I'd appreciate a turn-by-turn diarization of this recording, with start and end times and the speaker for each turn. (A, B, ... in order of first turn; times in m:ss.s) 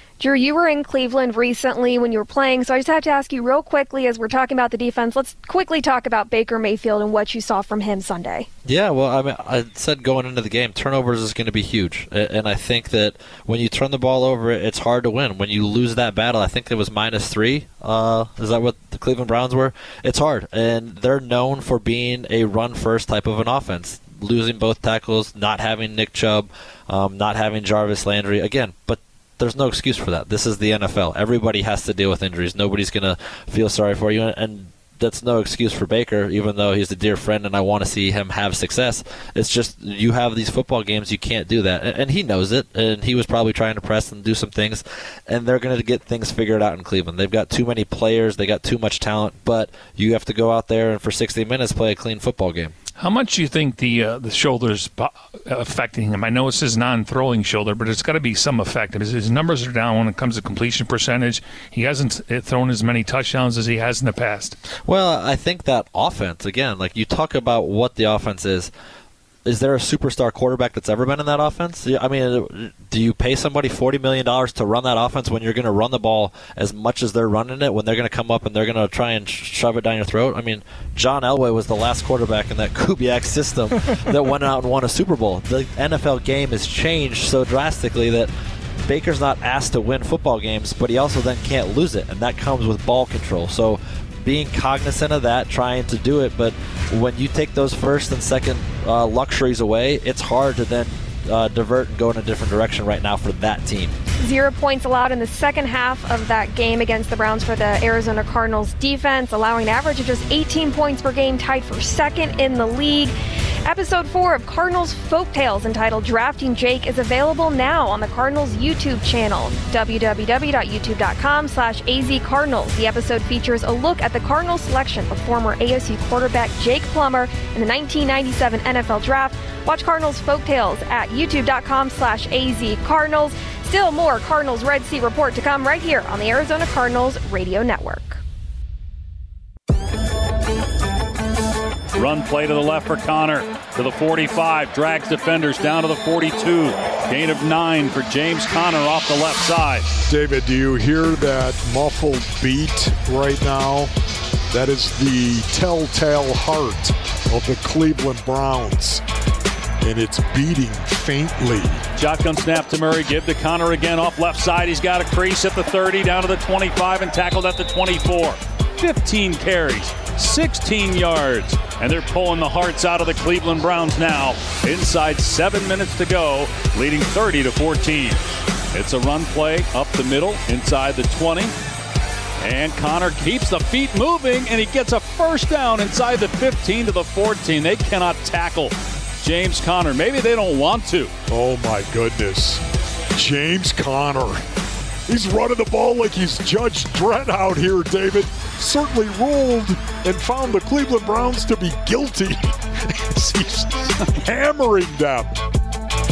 0:00.2-0:08.5 A
0:08.6-0:52.7 B
0:53.0-1:04.6 C
1:04.9-1:08.7 B
1:09.4-1:28.3 B
1:28.8-1:44.0 B
1:44.2-1:53.1 A
1:53.6-2:18.2 A
2:22.0-2:29.9 D
2:30.1-2:33.9 E
2:34.5-2:39.0 E
2:39.8-2:41.8 E
2:42.0-2:58.2 D
2:58.7-3:01.5 D
3:02.4-3:11.1 D
3:11.3-3:12.6 E
3:13.1-3:14.4 E
3:15.1-3:25.3 E